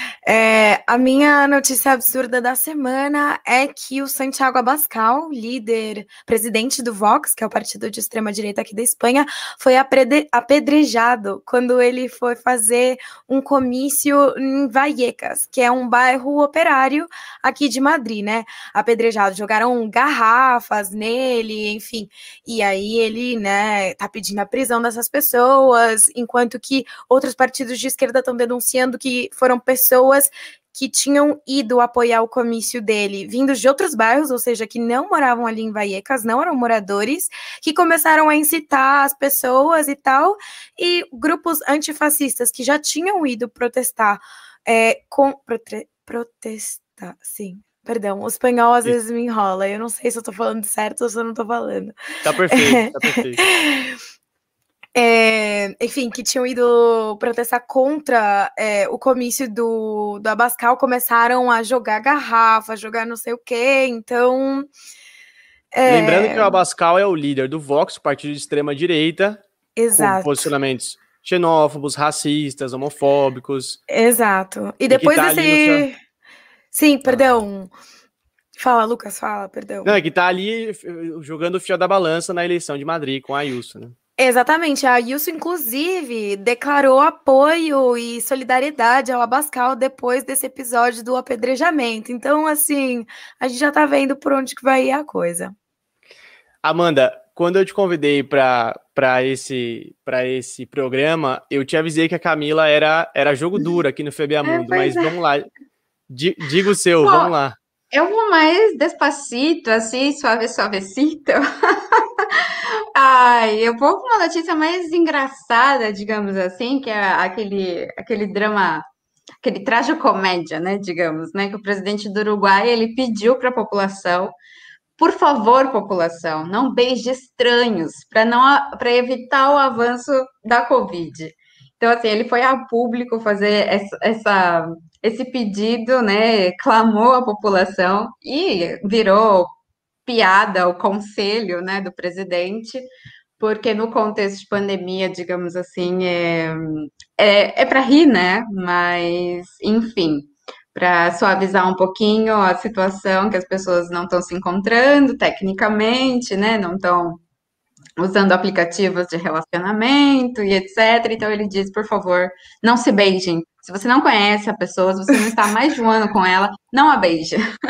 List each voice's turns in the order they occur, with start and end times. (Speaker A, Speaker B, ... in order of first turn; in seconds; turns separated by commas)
Speaker A: 0.2-51.9, Speaker B: 52.2-53.4, Speaker A: 52.5-54.0, Speaker A: 54.9-64.7, Speaker A: 65.7-66.5, Speaker B: 65.8-73.8, Speaker A: 69.8-70.5, Speaker A: 73.9-76.0, Speaker B: 74.9-75.9, Speaker A: 76.7-77.7, Speaker A: 78.6-80.0, Speaker B: 79.8-83.9, Speaker A: 84.2-95.5, Speaker B: 96.6-105.5, Speaker C: 104.4-105.1, Speaker B: 106.1-107.5, Speaker C: 107.0-107.3, Speaker C: 107.9-118.8, Speaker C: 119.4-124.3, Speaker C: 125.0-139.5, Speaker C: 140.1-142.9, Speaker C: 143.4-157.2, Speaker C: 158.0-167.4